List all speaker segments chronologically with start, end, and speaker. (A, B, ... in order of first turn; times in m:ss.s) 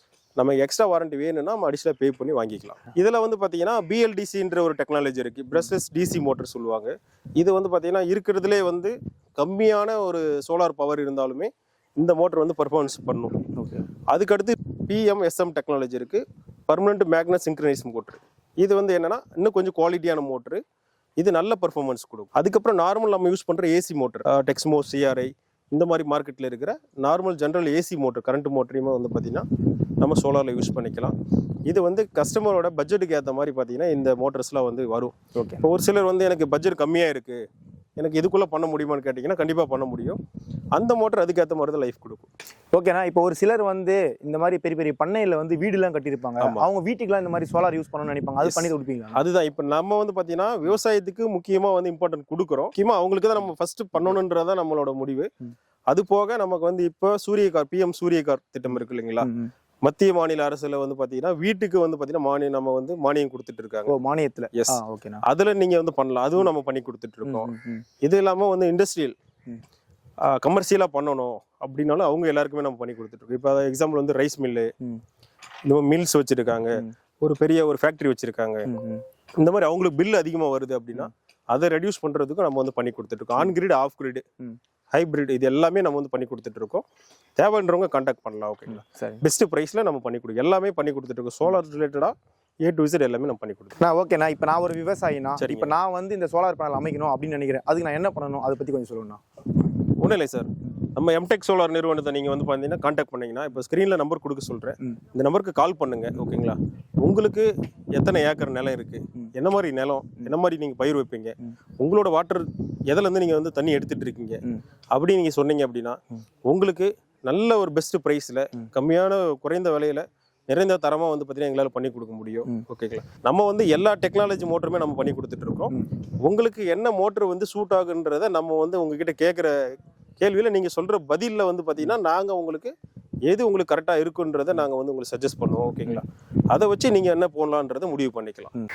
0:00.4-0:13.4 A
0:13.6-0:13.8 B
0:14.1-0:20.6 A
0:21.2-0:29.5 A
0:30.0-0:37.4 A
0:35.4-0:35.6 B
0:38.0-0:40.2 A
0:40.7-0:42.3 A
0:42.7-0:49.2 B
0:48.4-0:55.3 A
0:55.9-0:59.3 A
0:59.2-0:59.5 B
0:59.8-1:04.0 A
1:03.9-1:05.2 B
1:04.6-1:09.2 A
1:07.2-1:07.8 B
1:10.3-1:14.7 A
1:15.7-1:18.7 A
1:18.7-1:19.0 B
1:19.4-1:24.2 A
1:24.9-1:26.8 A
1:27.4-1:33.8 A
1:28.7-1:29.2 B
1:33.8-1:39.2 B
1:35.4-1:35.8 A
1:40.0-1:54.4 A
1:54.9-2:12.8 A
2:13.3-2:18.5 A